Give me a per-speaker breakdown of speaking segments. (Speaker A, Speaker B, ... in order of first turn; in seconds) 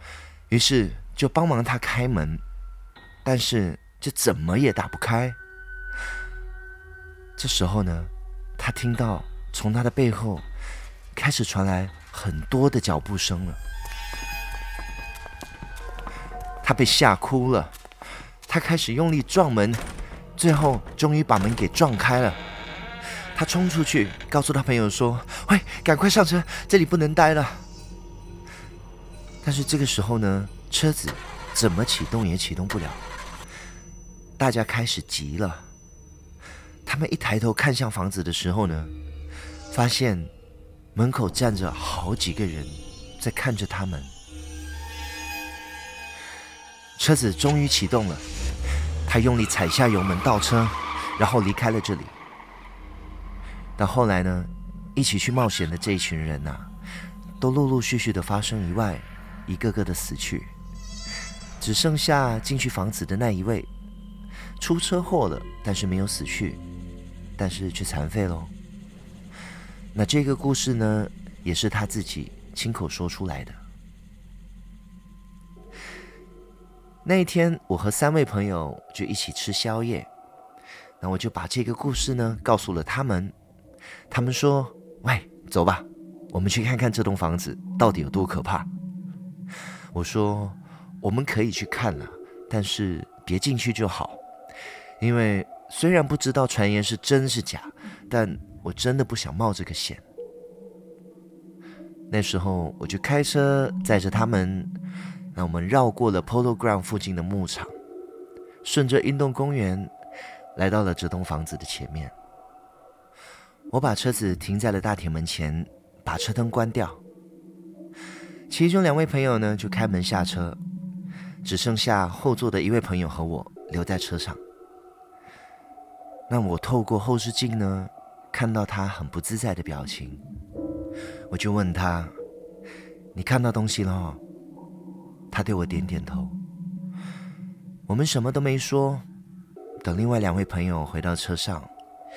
Speaker A: 0.5-2.4, 3.2-5.4, 7.3-10.5, 11.1-13.6, 16.6-17.7, 18.5-19.8, 20.4-22.4, 23.2-27.6, 29.4-33.0, 34.4-35.7, 36.8-38.9, 39.7-40.3, 40.9-44.1, 47.0-48.3, 49.0-52.2, 53.8-56.7, 57.4-60.5, 61.6-63.7, 64.6-66.6, 67.4-68.5, 69.9-73.6, 77.0-80.1, 81.0-83.3, 84.1-88.7, 89.9-94.2, 95.0-100.0, 102.1-104.7, 105.3-107.7, 108.6-109.9, 110.5-112.1, 113.7-117.0, 118.5-120.6, 121.4-124.4, 126.3-130.2, 131.3-132.1, 133.1-134.2, 135.3-136.4, 137.9-139.1, 139.8-141.7